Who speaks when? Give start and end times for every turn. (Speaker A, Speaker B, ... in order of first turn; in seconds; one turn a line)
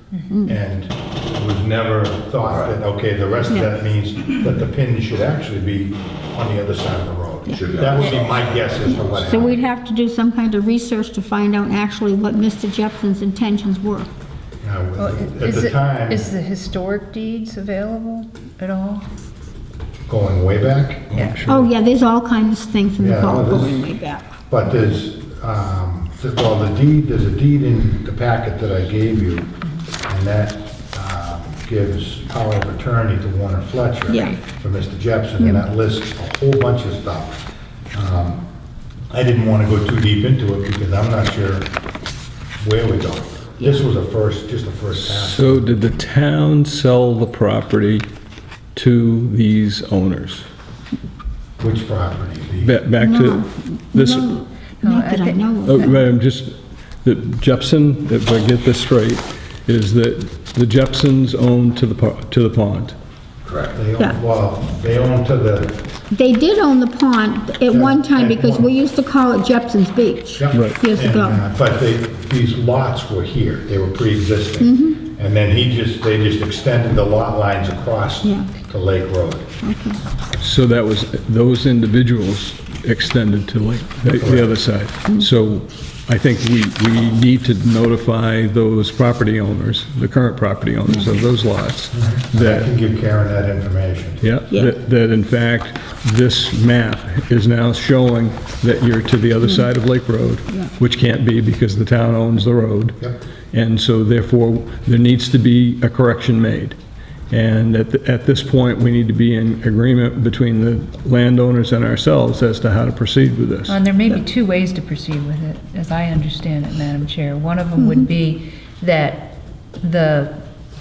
Speaker A: 0.3-0.6
Speaker B: 0.5-9.6
Speaker C: 2.5-2.7
Speaker C: 7.5-9.4
Speaker A: 8.8-14.1
Speaker B: 14.6-16.3
Speaker D: 15.0-19.0
Speaker B: 20.1-21.1
Speaker E: 21.1-21.7
Speaker A: 21.4-24.3
Speaker B: 23.0-23.8
Speaker B: 24.5-29.5
Speaker B: 30.1-37.4
Speaker A: 34.1-34.4
Speaker B: 37.9-38.4
Speaker B: 39.1-41.7
Speaker B: 42.6-45.7
Speaker A: 43.6-43.8
Speaker E: 44.9-48.0
Speaker E: 48.7-50.5
Speaker B: 51.6-52.8
Speaker E: 52.6-54.3
Speaker A: 53.0-56.0
Speaker D: 54.8-55.9
Speaker E: 55.6-63.0
Speaker C: 63.4-63.8
Speaker B: 63.7-65.8
Speaker A: 66.1-71.4
Speaker B: 67.7-68.7
Speaker B: 70.4-79.5
Speaker E: 70.5-70.8
Speaker A: 74.6-75.0
Speaker A: 78.2-78.5
Speaker A: 79.6-80.0
Speaker E: 80.4-92.7
Speaker B: 84.1-84.6
Speaker B: 91.9-94.2
Speaker E: 94.2-103.0
Speaker E: 103.5-106.8
Speaker E: 107.3-113.8
Speaker D: 113.7-120.3
Speaker A: 117.8-118.1